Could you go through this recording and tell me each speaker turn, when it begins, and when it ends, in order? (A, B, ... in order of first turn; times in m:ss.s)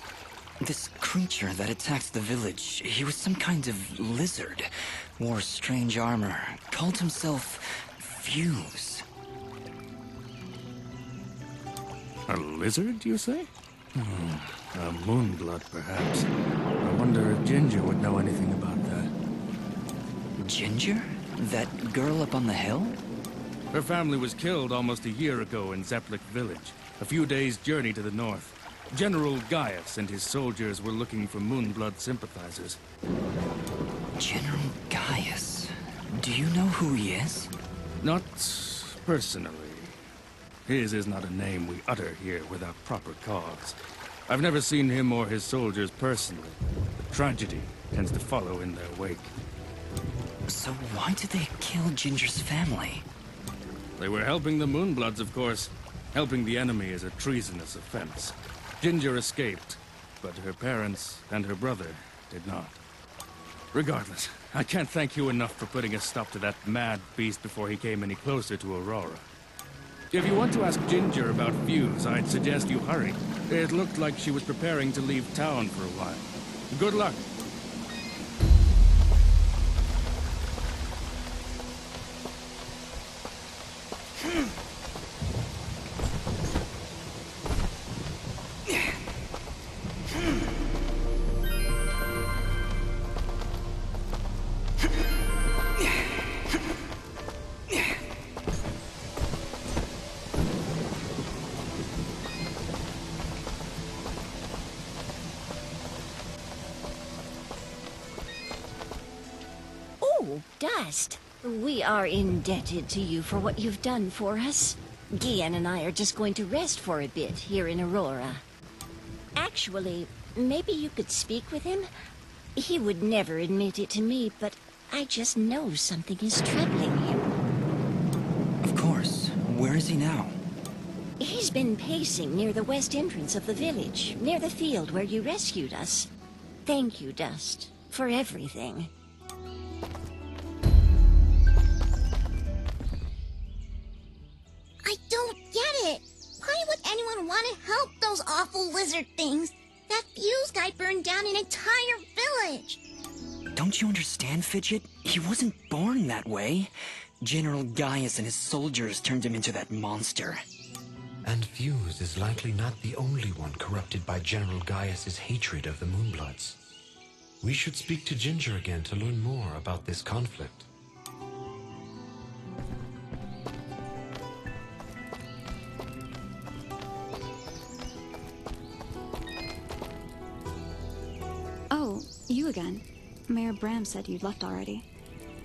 0:00.6-0:09.0 A
0:12.3-0:16.3 B
0:16.8-0:19.1 B
0:20.4-0:23.0 A
0:23.7-0:32.8 B
0:34.2-0:37.5 A
0:38.0-0:40.0 B
0:40.7-0:43.8 B
0:44.3-0:46.6 B
0:47.1-0:49.3 B
0:50.5-0:53.1 A
0:54.0-1:02.8 B
1:03.7-1:09.2 B
1:10.1-1:17.2 B
1:50.0-1:58.4 C
1:59.4-2:01.9 C
2:02.6-2:07.4 C
2:08.6-2:10.4 A
2:11.2-2:16.1 C
2:16.6-2:18.9 C
2:24.8-2:32.8 D
2:33.6-2:40.4 A
2:41.2-2:46.6 E
2:47.4-2:50.7 E
3:01.7-3:04.9 F